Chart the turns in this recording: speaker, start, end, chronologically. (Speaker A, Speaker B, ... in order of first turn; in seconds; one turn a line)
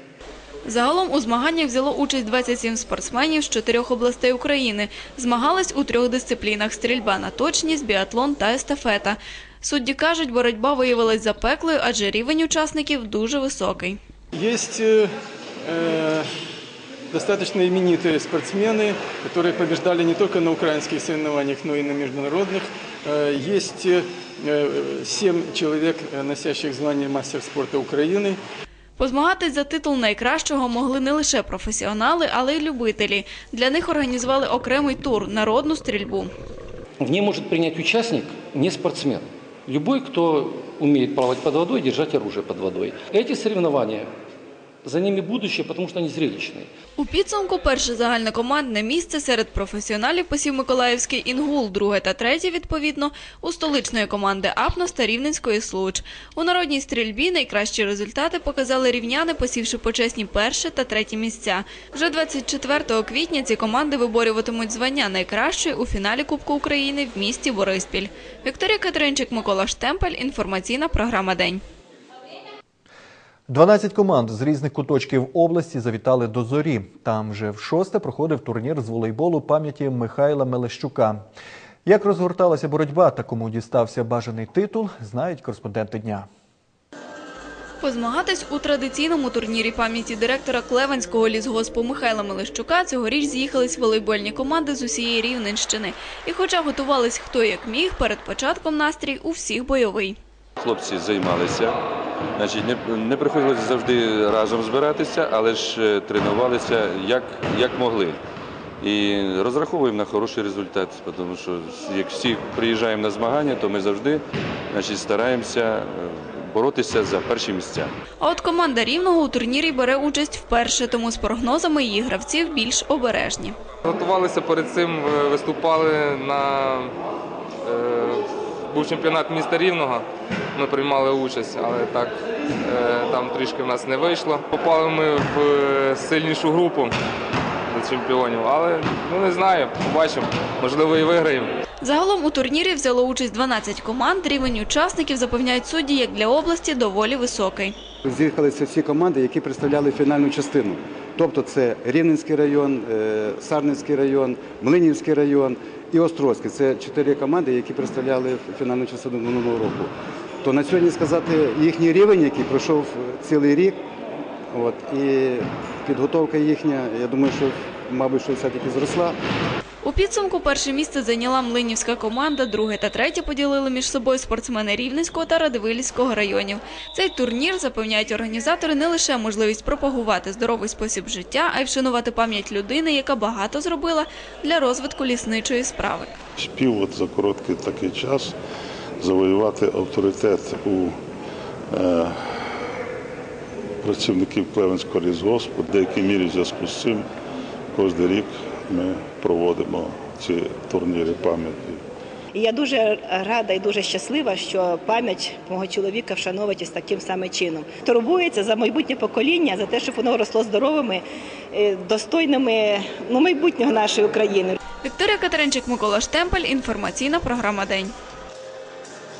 Speaker A: 0.7-14.0
Speaker B: 14.3-15.1
Speaker B: 15.6-16.3
Speaker B: 17.1-28.4
Speaker A: 29.0-36.3
Speaker C: 37.0-44.1
Speaker C: 44.8-46.7
Speaker A: 47.0-71.6
Speaker D: 73.5-81.2
Speaker D: 81.8-86.3
Speaker A: 87.8-100.2
Speaker E: 100.6-101.8
Speaker E: 102.4-108.2
Speaker E: 108.8-117.9
Speaker A: 118.2-123.5
Speaker F: 123.9-126.9
Speaker F: 127.7-128.2
Speaker F: 128.7-130.0
Speaker F: 130.6-132.1
Speaker F: 132.7-136.9
Speaker F: 137.8-141.5
Speaker A: 141.8-147.7
Speaker G: 148.0-163.8
Speaker G: 164.5-169.2
Speaker A: 169.8-186.1
Speaker H: 186.4-188.4
Speaker H: 189.0-191.0
Speaker H: 191.7-192.5
Speaker H: 193.8-197.1
Speaker H: 197.7-201.8
Speaker I: 202.3-214.6
Speaker A: 214.8-217.9